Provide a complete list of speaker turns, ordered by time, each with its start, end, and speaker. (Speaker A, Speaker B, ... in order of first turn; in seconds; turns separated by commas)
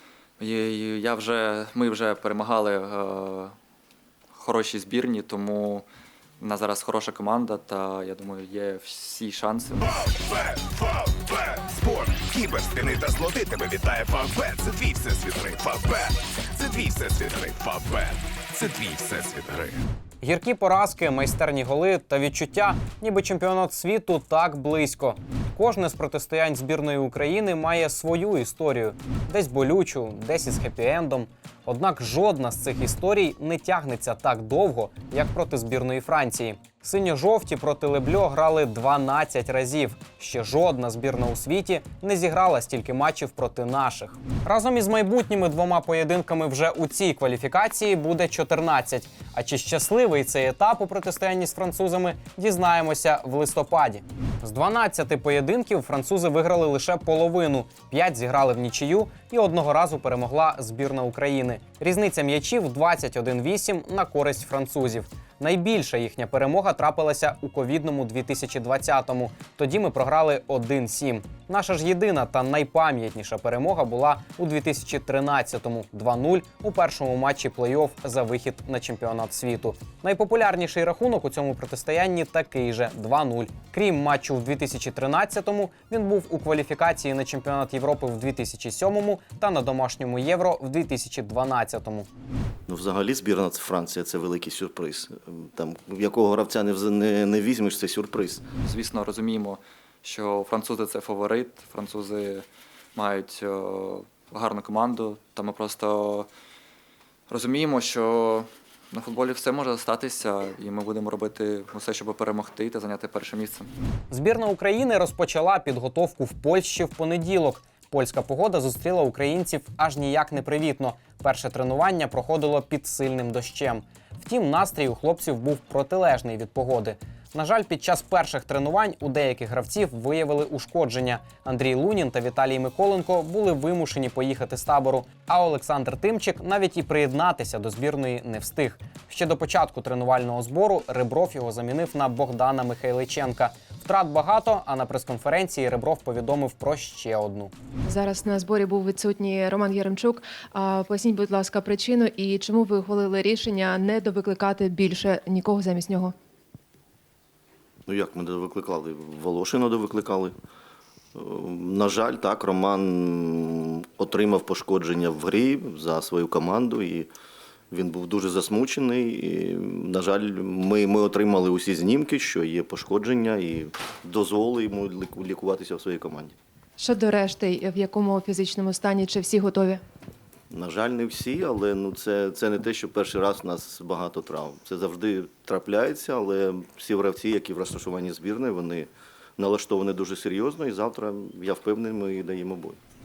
Speaker A: 0.4-3.5, Speaker A: 4.3-5.8, Speaker A: 6.4-9.9, Speaker B: 10.2-19.8, Speaker C: 20.2-92.1, Speaker D: 92.7-98.4, Speaker A: 98.6-106.3, Speaker A: 107.3-113.7, Speaker C: 114.1-147.5, Speaker E: 147.8-156.1, Speaker D: 157.9-160.3, Speaker D: 161.1-167.1, Speaker D: 167.7-176.3, Speaker E: 176.8-179.8, Speaker D: 180.5-192.8